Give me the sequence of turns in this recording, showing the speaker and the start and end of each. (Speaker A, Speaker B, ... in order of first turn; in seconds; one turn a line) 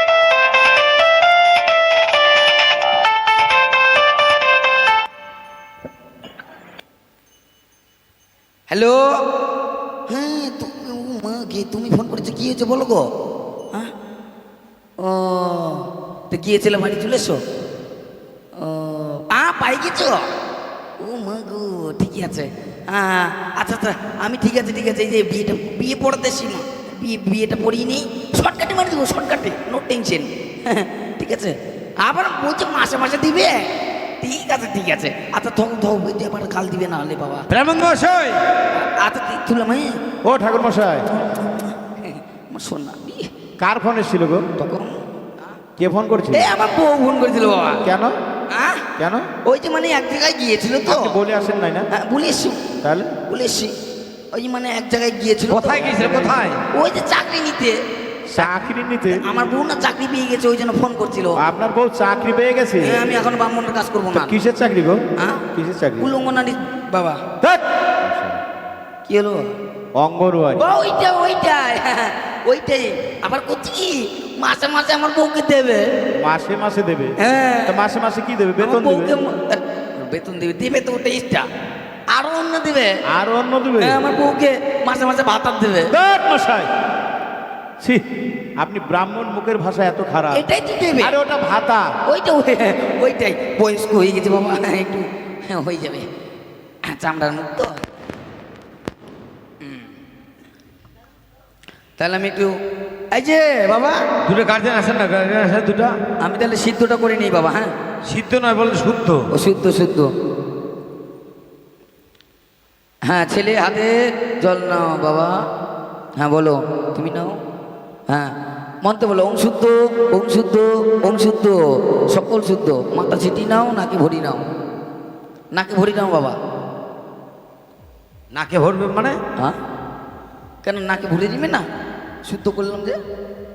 Speaker A: 8.7-9.2
Speaker A: 10.1-13.1
Speaker A: 15.0-17.4
Speaker A: 18.5-20.3
Speaker A: 21.0-37.5
Speaker B: 37.5-38.5
Speaker A: 38.7-40.0
Speaker C: 40.2-41.1
Speaker A: 41.1-43.3
Speaker C: 43.6-44.5
Speaker A: 44.6-45.0
Speaker C: 45.8-46.5
Speaker A: 46.3-47.9
Speaker C: 47.8-48.2
Speaker A: 48.5-48.9
Speaker C: 49.0-49.3
Speaker A: 49.4-51.2
Speaker C: 50.9-51.9
Speaker A: 51.9-52.6
Speaker C: 52.8-53.2
Speaker A: 53.3-53.7
Speaker A: 54.3-57.8
Speaker B: 55.5-56.6
Speaker C: 56.0-56.4
Speaker C: 58.3-59.4
Speaker A: 58.4-61.4
Speaker C: 61.4-63.0
Speaker A: 62.8-64.3
Speaker C: 64.1-65.0
Speaker A: 65.2-65.5
Speaker C: 65.5-66.1
Speaker A: 66.0-67.2
Speaker C: 67.4-68.4
Speaker A: 69.1-69.5
Speaker C: 70.0-70.6
Speaker A: 70.5-75.8
Speaker C: 76.2-77.1
Speaker A: 77.2-77.8
Speaker C: 77.7-79.2
Speaker A: 78.6-81.5
Speaker A: 82.1-83.0
Speaker C: 83.1-84.0
Speaker A: 83.8-85.9
Speaker C: 85.9-86.7
Speaker C: 88.6-90.4
Speaker A: 90.3-91.2
Speaker C: 91.0-91.9
Speaker A: 92.1-96.1
Speaker A: 96.8-97.8
Speaker A: 99.6-99.9
Speaker A: 102.0-102.5
Speaker A: 103.1-104.1
Speaker B: 104.2-106.0
Speaker A: 106.2-107.7
Speaker B: 108.1-109.3
Speaker A: 109.3-110.1
Speaker A: 113.0-115.4
Speaker A: 116.2-117.4
Speaker A: 118.1-121.6
Speaker A: 122.1-124.4
Speaker A: 125.5-126.4
Speaker B: 128.3-129.2
Speaker A: 130.6-131.7
Speaker A: 132.2-133.0